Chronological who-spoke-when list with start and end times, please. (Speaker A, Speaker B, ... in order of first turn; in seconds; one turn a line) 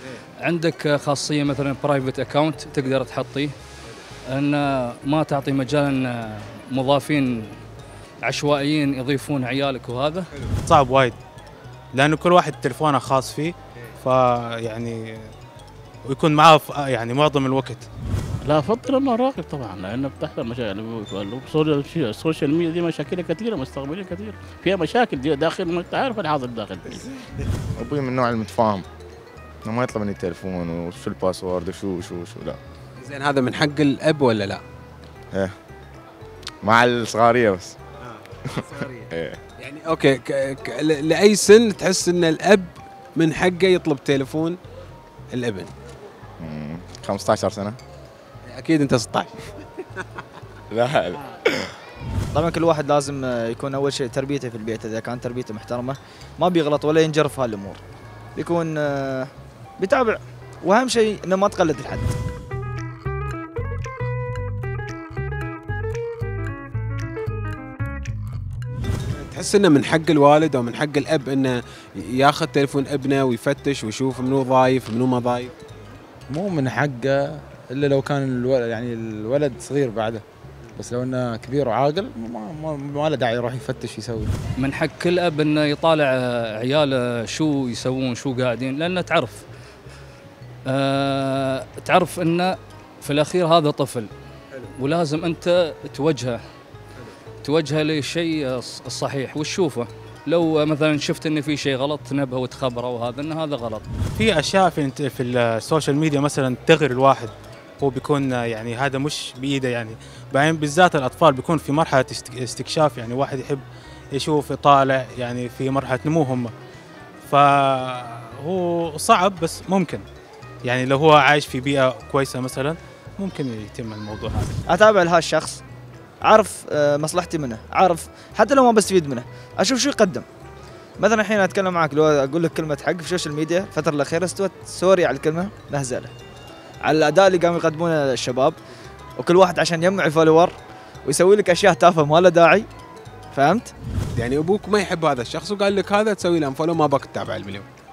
Speaker A: 0.4-3.5
Speaker A: 4.3-7.6
Speaker A: 8.2-10.3
Speaker B: 10.7-11.2
Speaker B: 11.9-15.3
Speaker B: 16.1-17.9
Speaker C: 18.4-27.1
Speaker D: 27.8-28.9
Speaker D: 29.6-32.6
Speaker E: 33.0-34.6
Speaker D: 36.6-37.8
Speaker E: 38.7-44.6
Speaker E: 45.3-45.7
Speaker D: 46.4-47.8
Speaker E: 48.5-49.5
Speaker D: 50.7-51.7
Speaker F: 52.3-57.8
Speaker F: 58.4-62.1
Speaker E: 69.1-75.5
Speaker G: 76.3-80.2
Speaker G: 80.8-84.3
Speaker A: 84.6-89.4
Speaker A: 90.7-94.1
Speaker A: 94.6-96.4
Speaker A: 97.4-103.9
Speaker B: 104.1-116.5
Speaker B: 117.2-120.0
Speaker B: 120.6-124.6
Speaker F: 124.7-125.6
Speaker F: 126.2-130.2
Speaker F: 131.0-136.1
Speaker F: 136.8-138.5
Speaker F: 139.2-140.5
Speaker F: 141.1-142.7
Speaker F: 143.3-143.7
Speaker E: 144.1-147.7